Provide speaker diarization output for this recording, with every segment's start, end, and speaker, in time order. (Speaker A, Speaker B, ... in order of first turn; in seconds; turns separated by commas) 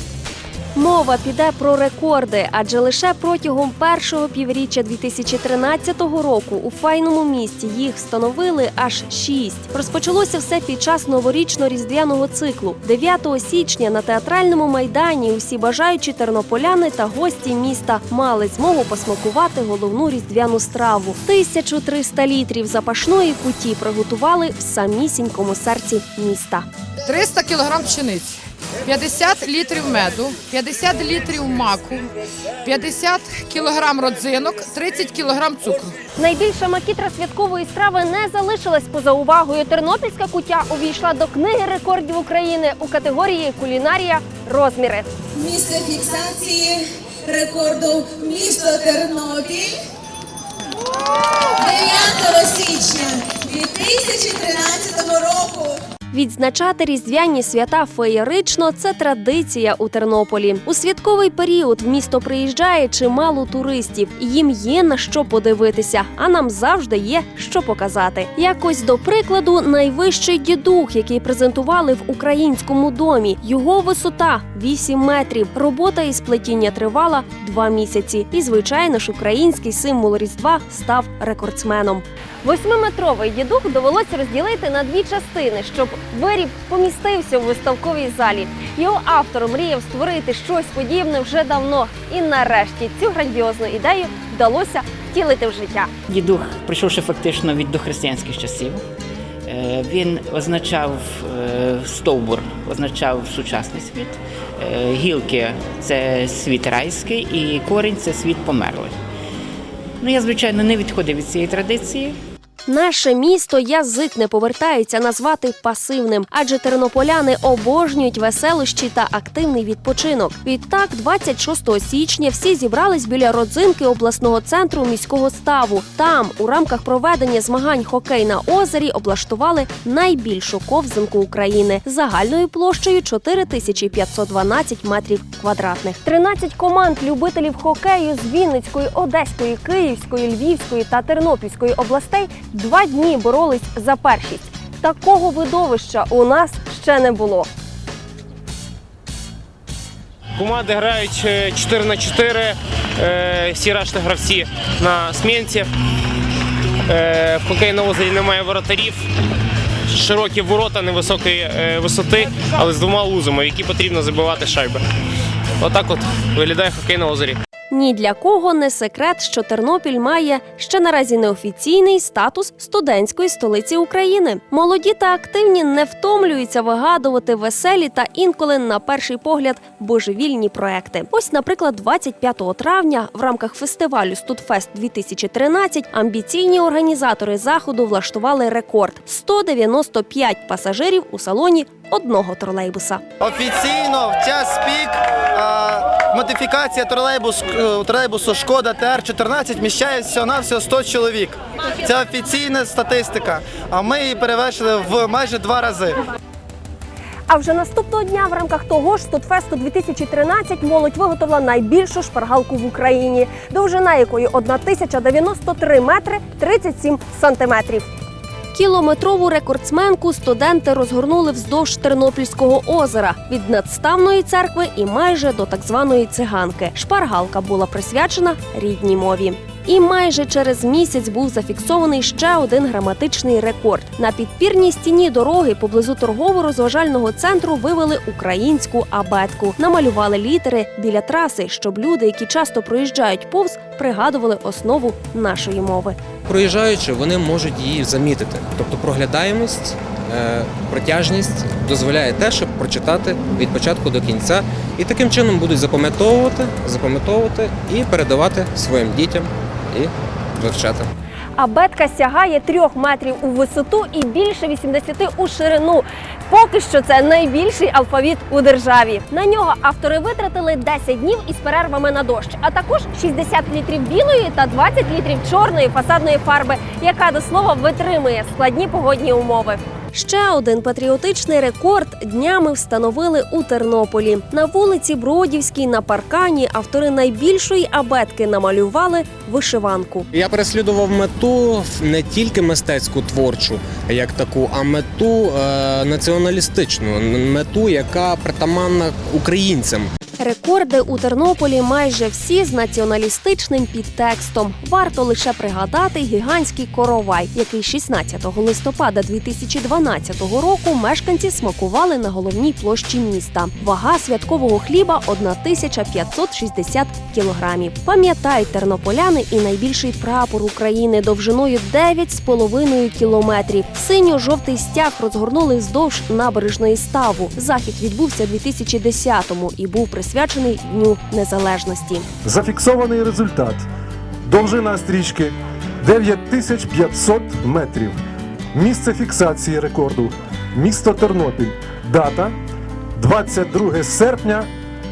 Speaker A: 0.8-26.6, Speaker B: 27.1-32.1, Speaker B: 32.6-36.0, Speaker A: 36.2-45.1, Speaker C: 45.4-49.8, Speaker C: 51.6-55.8, Speaker A: 56.1-95.9, Speaker D: 96.1-98.8, Speaker D: 99.5-109.0, Speaker D: 110.0-112.2, Speaker A: 112.7-147.5, Speaker E: 150.4-155.7, Speaker E: 156.9-158.9, Speaker E: 160.0-164.7, Speaker E: 165.7-167.4, Speaker A: 167.7-193.0, Speaker F: 193.3-206.0, Speaker A: 207.3-217.9, Speaker A: 218.5-245.9, Speaker G: 246.3-260.9, Speaker A: 261.4-290.1, Speaker G: 290.1-299.9, Speaker A: 300.2-332.1, Speaker H: 332.2-333.6, Speaker H: 334.3-338.0, Speaker H: 338.5-342.3, Speaker H: 343.0-344.5